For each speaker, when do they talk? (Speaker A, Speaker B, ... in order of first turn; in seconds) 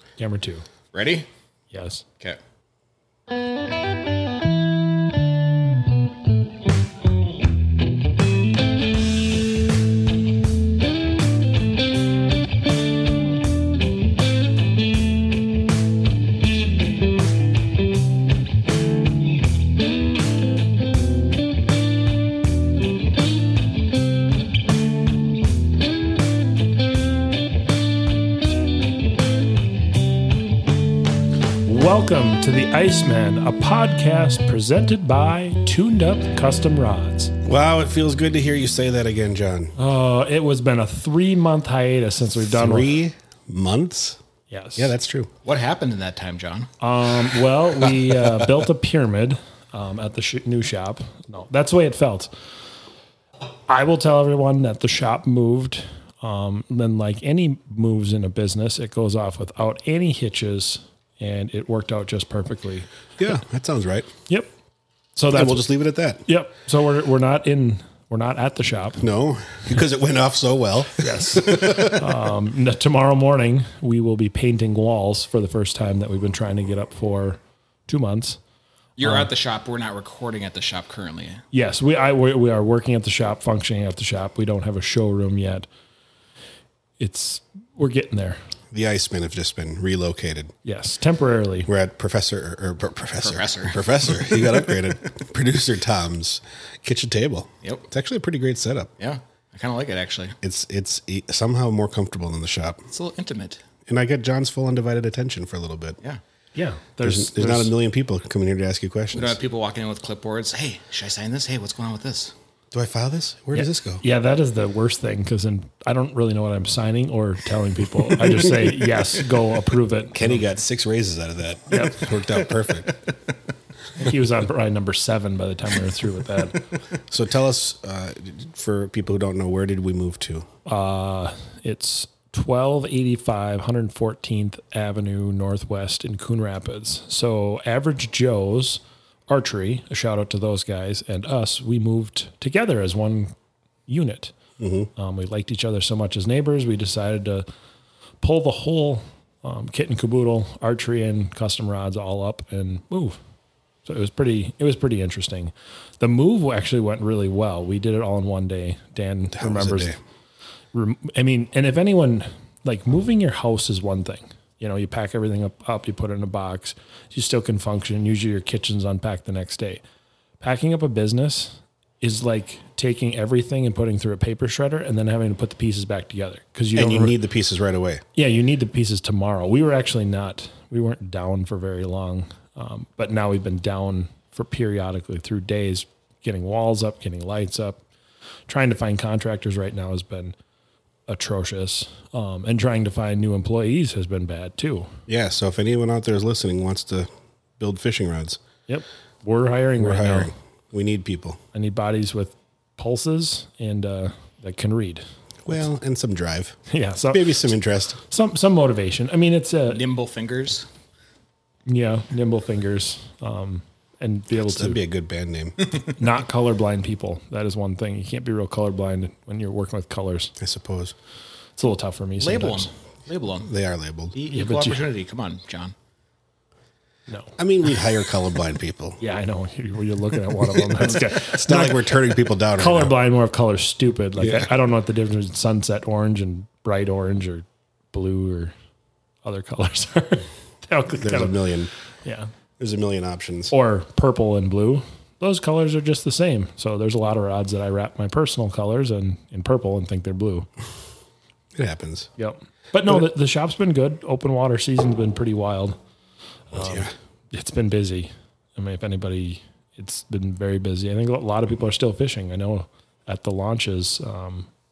Speaker A: 0.2-0.6, 1.7-2.0, 31.6-37.3, 39.8-42.9, 44.5-44.9, 46.8-52.3, 53.7-62.9, 65.2-65.6, 66.2-69.0, 71.0-78.4, 81.5-85.7, 87.0-88.4, 90.6-91.7, 106.5-107.7, 113.5-120.4, 121.7-122.1, 124.0-126.7, 130.7-143.3, 143.9-144.3, 144.9-147.4, 148.2-153.2, 153.8-159.9, 160.7-169.8, 170.4-177.2, 178.1-187.8, 188.5-190.3, 191.1-194.9, 198.7-200.3, 201.5-205.0, 206.7-207.3, 208.1-209.8, 211.7-214.8, 215.9-220.3, 221.6-222.7, 224.3-224.8, 227.1-227.3, 229.0-238.5, 239.2-241.4, 242.0-242.3, 243.5-250.5, 252.2-255.8, 256.5-264.5
Speaker B: 0.9-1.3, 45.4-46.7, 79.0-81.4, 93.2-94.8, 99.0-100.4, 102.9-103.6, 109.1-112.3, 209.7-210.7, 222.2-223.5, 224.1-225.7
Speaker C: 37.4-39.8, 42.4-44.2, 44.8-45.3, 63.2-64.1, 65.3-66.2, 69.0-72.1, 88.7-90.5, 91.7-98.9, 100.4-102.8, 103.8-106.0, 107.0-109.4, 112.7-114.0, 118.1-118.8, 120.1-123.0, 127.1-130.5, 144.6-144.9, 159.3-160.0, 176.7-178.0, 195.1-197.1, 197.6-198.4, 199.8-201.4, 205.4-206.6, 207.1-208.0, 214.4-215.6, 220.4-220.9, 223.4-224.2, 227.4-229.0, 230.5-232.9, 234.2-234.5, 241.0-241.7, 242.6-243.5, 251.5-252.1, 256.6-256.9